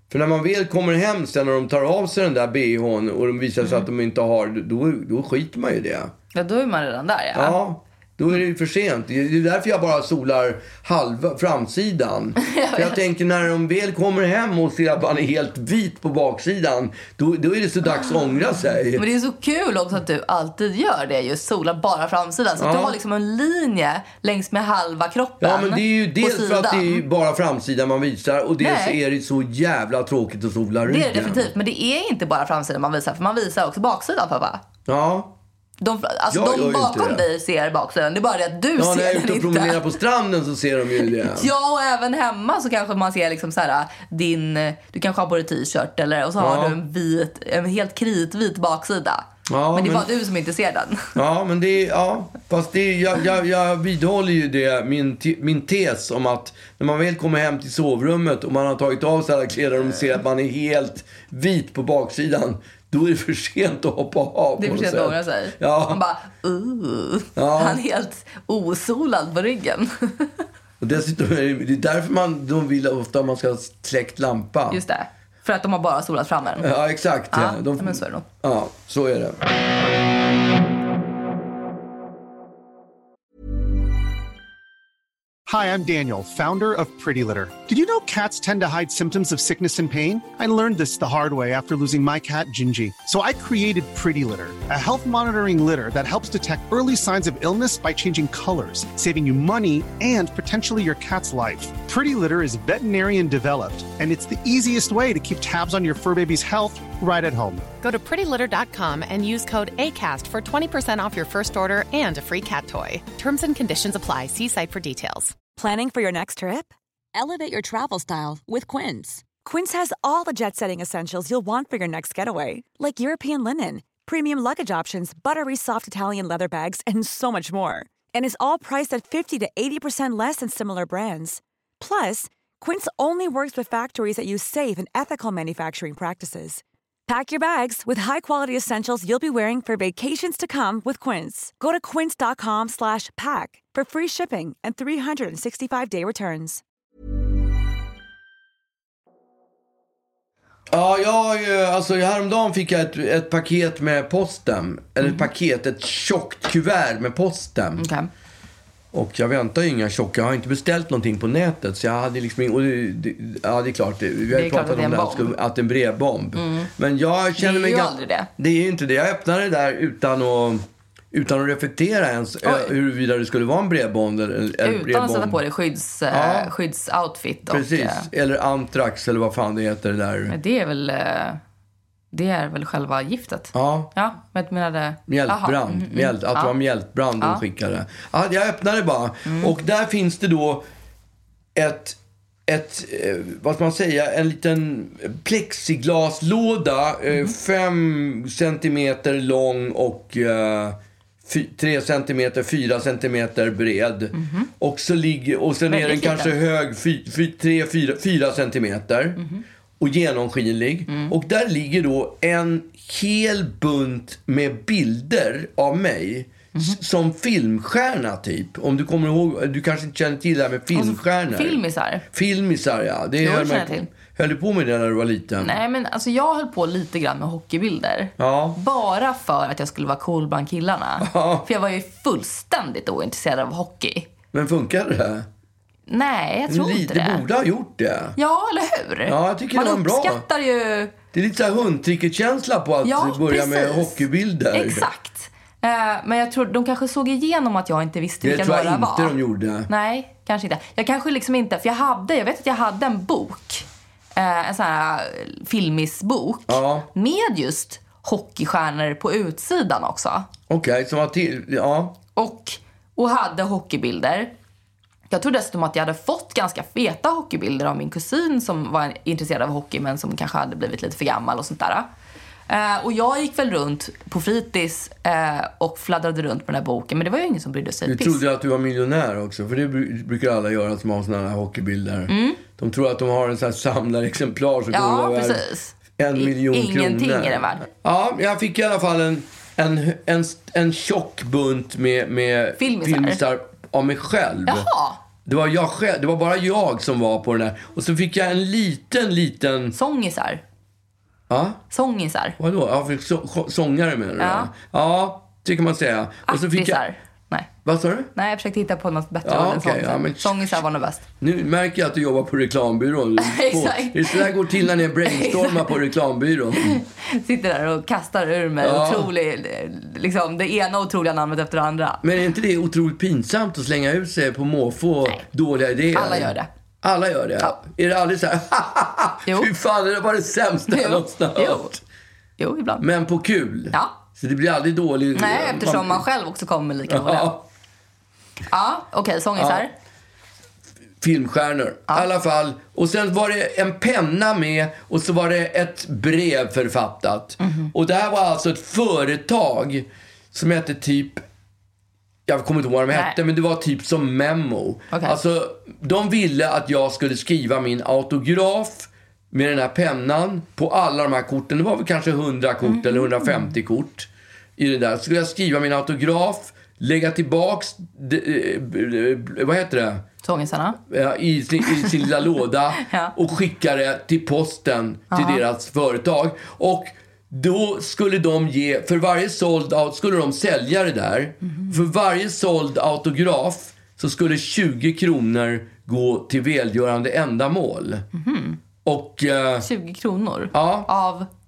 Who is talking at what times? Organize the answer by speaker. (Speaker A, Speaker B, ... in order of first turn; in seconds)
Speaker A: 0.1-6.1, 7.3-19.0, 22.6-23.0, 25.4-31.5, 34.9-35.3, 36.3-37.2, 38.8-41.5, 46.4-46.8, 49.5-50.1, 51.1-66.0, 67.3-67.8, 70.8-74.8, 76.6-79.4, 150.7-157.9, 158.9-175.4, 176.1-176.5, 177.5-180.3, 183.5-183.9, 185.1-190.6, 191.6-209.2, 209.8-221.6, 222.1-225.6, 228.2-228.6, 231.0-231.5, 234.3-235.2, 236.5-238.2, 239.1-240.2, 241.1-244.9, 248.2-249.7, 256.5-256.9, 260.5-261.9, 277.9-285.4, 286.0-294.7, 295.2-299.7, 301.3-301.6, 302.4-306.8, 307.6-308.1, 309.2-310.6, 311.2-316.8, 318.6-319.1, 322.0-331.8, 332.8-336.0, 336.9-337.4, 339.4-339.6, 341.0-351.2, 352.3-370.0, 370.9-388.0, 388.8-389.6, 390.5-390.9
Speaker B: 6.3-7.6, 12.4-13.0, 18.9-27.0, 28.6-29.0, 30.8-34.6, 35.8-39.8, 41.0-51.1, 64.6-70.4, 74.7-76.7, 77.3-78.2, 157.8-158.1, 164.3-165.3, 166.3-166.7, 167.4-168.3, 172.4-172.7, 174.6-178.1, 180.3-181.4, 182.1-186.5, 189.2-189.5, 204.1-204.5, 205.7-206.3, 220.7-222.0, 223.2-223.9, 225.4-234.1, 235.9-237.2, 238.2-240.9, 242.8-249.1, 249.7-253.6, 254.2-260.3, 262.1-264.3, 265.1-271.9, 272.5-278.2, 282.1-282.4, 284.7-287.6, 292.6-293.2, 294.4-295.0, 299.7-300.4, 301.7-302.4, 304.2-304.5, 306.3-307.5, 308.1-311.0, 313.2-314.3, 315.0-315.7, 316.6-322.0, 325.9-326.5, 330.7-331.7, 332.4-332.8, 335.1-337.3, 338.5-339.7, 347.4-347.7, 362.6-363.5, 370.2-370.8, 372.8-373.1, 375.1-375.4, 388.1-388.6, 389.6-391.3
Speaker C: 85.5-107.7
Speaker D: 107.8-115.4
Speaker E: 115.5-146.6